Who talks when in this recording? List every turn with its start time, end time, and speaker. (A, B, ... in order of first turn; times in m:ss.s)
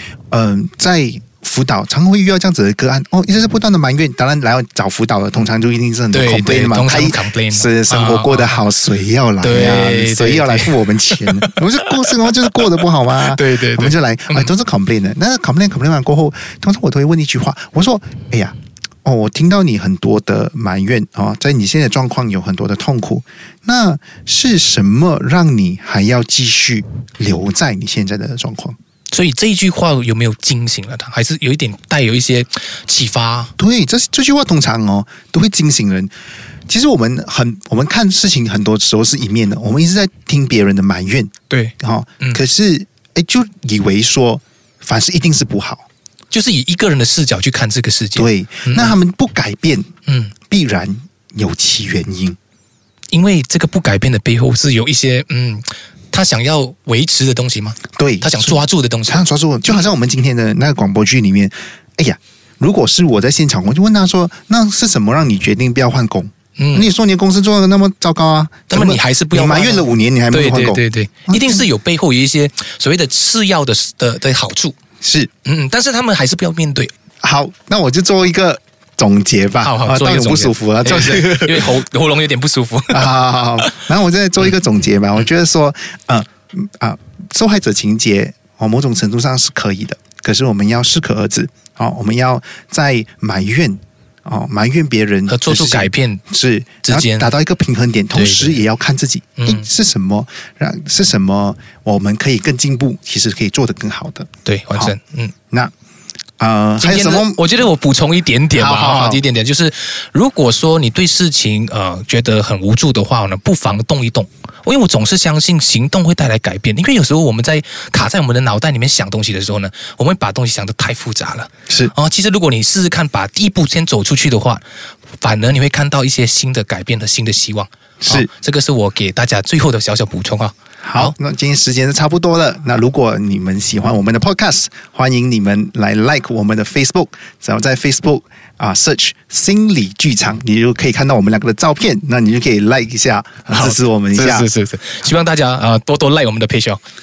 0:00.3-0:28.8 A
0:06.1-0:08.6 B
0:09.4-0:11.6 B
0:12.2-0:12.5 B
0:13.2-0:14.5 B
0:29.1-0:33.5 B
0:33.6-0:36.1 A
0:36.7-0:45.9 A
0:41.5-0:42.4 B
0:46.3-0:49.0 B
0:48.2-0:49.9 A
0:50.1-0:50.3 B
0:50.5-0:52.4 A
0:53.1-0:59.2 B
0:58.0-1:11.7 A
1:06.6-1:06.9 B
1:08.7-1:14.8 B
1:15.0-1:15.3 A
1:15.4-1:16.9 B
1:17.2-1:21.8 A
1:19.6-1:23.1 B
1:22.9-1:45.0 A
1:35.3-1:36.2 B
1:36.8-1:37.3 B
1:38.1-1:38.6 B
1:39.4-1:39.7 B
1:44.4-1:45.3 B
1:46.4-1:47.4 A
1:46.8-2:04.6 B
1:48.6-1:49.2 A
2:01.7-2:01.9 A
2:05.2-2:11.2 B
2:08.0-2:08.3 A
2:10.8-2:24.5 A
2:23.5-2:26.8 B